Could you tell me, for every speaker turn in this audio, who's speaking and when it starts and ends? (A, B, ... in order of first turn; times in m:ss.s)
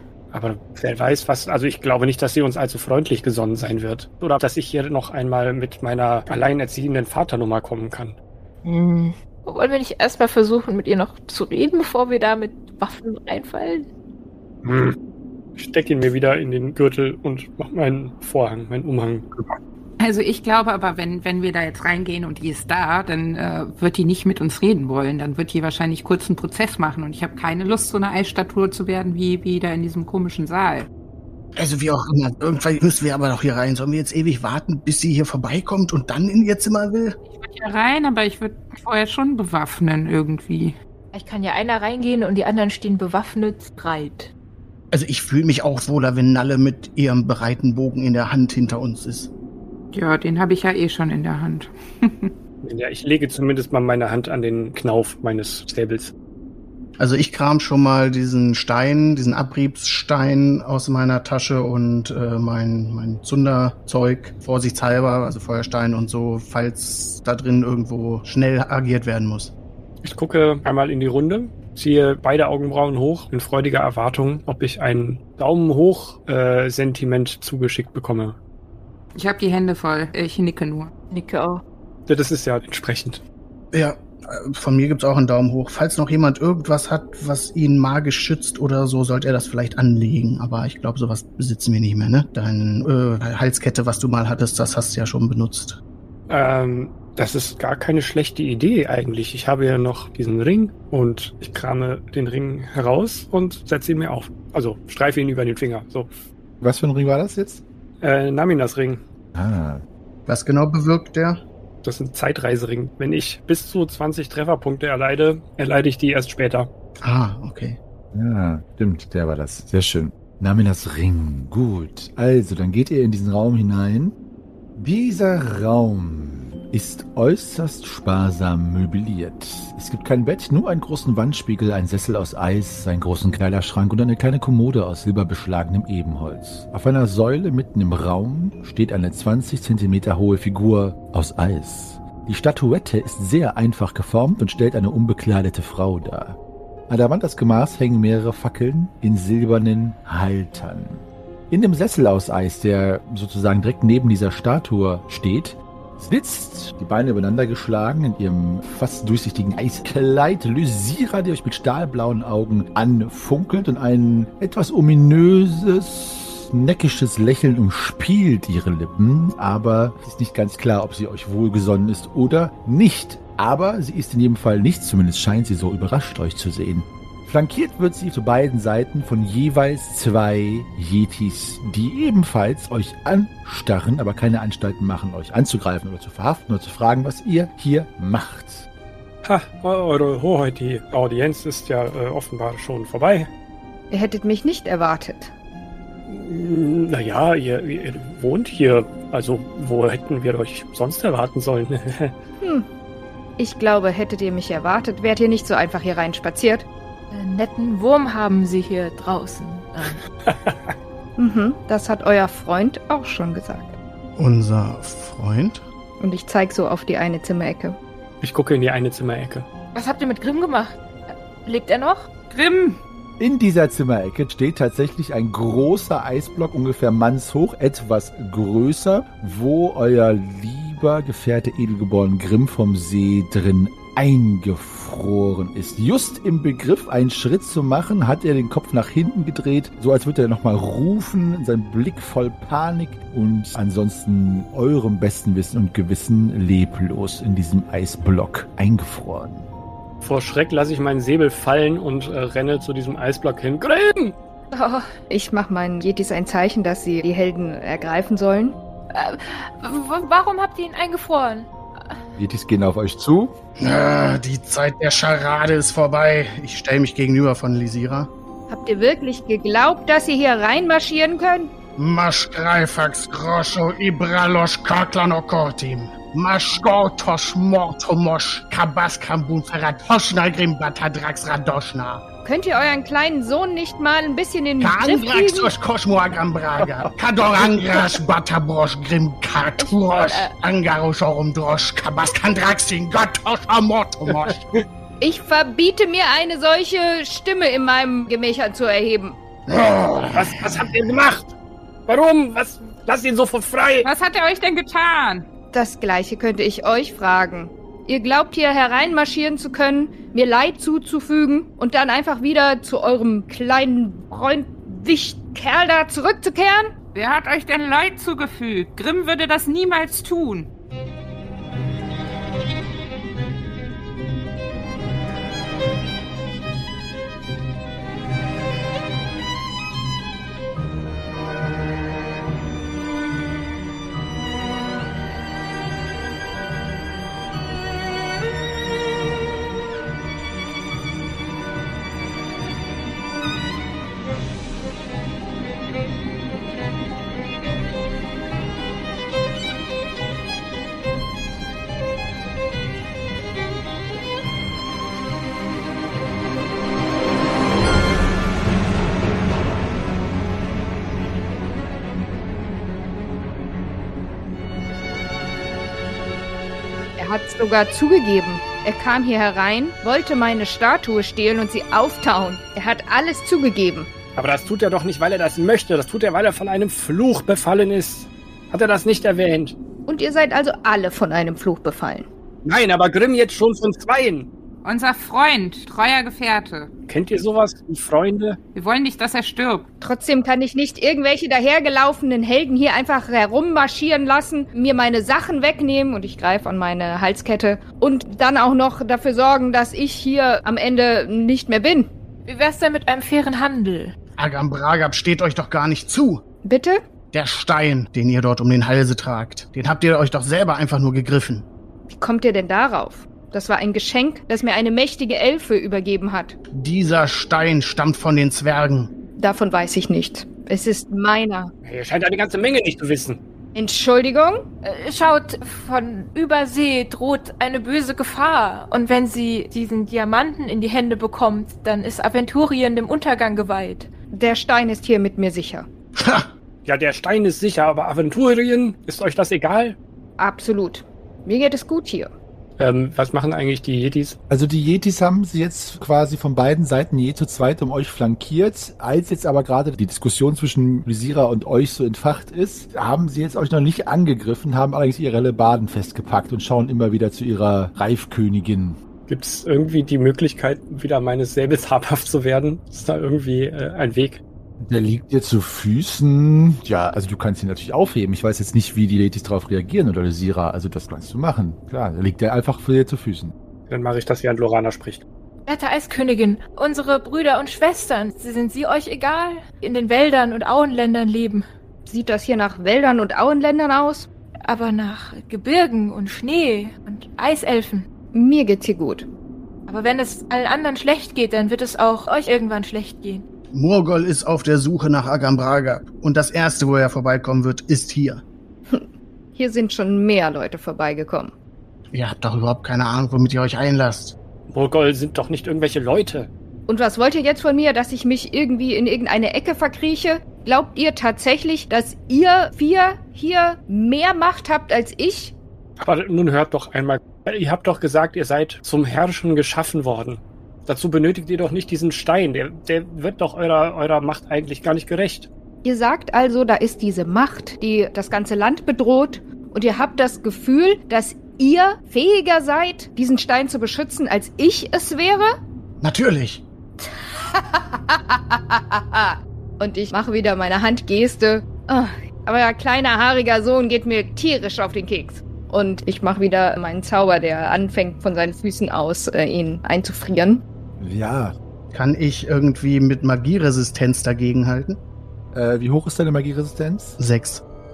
0:00.3-0:08.2 A
0:08.6-0:13.9 B
0:14.6-0:15.0 A
0:15.6-0:19.6 A
0:20.0-0:30.9 C
0:31.6-0:37.2 D
0:37.3-0:40.8 C
0:41.1-0:44.3 B
0:44.9-0:49.3 D
0:49.9-0:52.3 C
0:52.6-0:56.1 A
0:57.0-1:09.5 D
1:10.0-1:18.4 A
1:19.1-1:20.9 C
1:21.1-1:21.6 B
1:22.1-1:23.2 A
1:23.7-1:35.8 D
1:36.3-1:46.1 A
1:46.6-1:47.6 E
1:48.0-1:49.0 A
1:49.3-1:49.8 E
1:50.3-1:51.4 D
1:51.8-1:56.7 A
1:57.0-1:57.8 D
1:58.1-2:04.1 E
2:04.8-2:26.4 E
2:26.9-3:08.7 E
3:09.2-3:13.3 A
3:13.9-3:15.3 F
3:16.1-3:22.1 A
3:22.4-3:22.7 F
3:23.4-3:26.7 F
3:27.1-3:30.0 B
3:30.2-3:30.7 A
3:31.2-3:33.8 F
3:34.2-3:35.6 D
3:36.0-3:37.8 F
3:38.2-3:39.4 A
3:39.7-3:42.1 B
3:42.3-3:42.8 C
3:43.2-4:09.5 E
4:10.0-4:14.2 A
4:14.5-4:14.9 B
4:15.1-4:18.6 F
4:18.9-4:22.0 B
4:22.2-4:23.3 E
4:23.6-4:28.1 D
4:28.5-4:31.5 F
4:31.8-4:42.0 D
4:42.2-4:45.5 F
4:44.6-4:54.4 D
4:49.6-4:50.3 B
4:55.0-4:59.2 F
4:59.5-5:00.3 D
5:00.1-5:01.3 A
5:01.9-5:03.9 A
5:03.8-5:05.2 C
5:05.5-5:16.7 F
5:16.9-5:20.5 C
6:07.0-6:13.9 F
6:14.2-6:19.6 A
6:19.9-6:22.1 F
6:22.4-6:24.3 A
6:24.6-6:26.7 C
6:26.9-6:28.4 A
6:28.5-6:29.7 C
6:29.8-6:41.9 F
6:42.2-6:43.9 B
6:44.2-6:46.2 D
6:46.4-6:46.8 F
6:47.1-6:51.5 D
6:51.9-6:56.4 F
6:56.5-6:58.9 D
6:59.2-7:01.5 F
7:01.6-7:03.2 A
7:03.5-7:04.4 F
7:04.6-7:13.9 B
7:14.1-7:15.7 F
7:16.0-7:16.3 D
7:16.6-7:19.8 A
7:20.2-7:22.1 F
7:22.6-7:24.2 A
7:24.3-7:38.8 E
7:39.1-7:44.2 A
7:44.6-7:53.3 E
7:53.7-7:55.0 A
7:55.4-8:01.4 B
8:01.8-8:04.1 F
8:04.5-8:07.9 B
8:08.1-8:09.1 F
8:09.7-8:13.2 B
8:13.5-8:18.2 D
8:18.7-8:21.3 F
8:21.9-8:24.2 D
8:24.5-8:26.3 A
8:26.7-8:35.3 F
8:35.8-8:45.3 A
8:45.6-8:55.3 F
8:55.8-8:56.4 D
8:56.8-9:10.4 F
9:10.8-9:11.3 E
9:11.7-9:14.8 D
9:15.3-9:17.0 E
9:17.0-9:17.4 D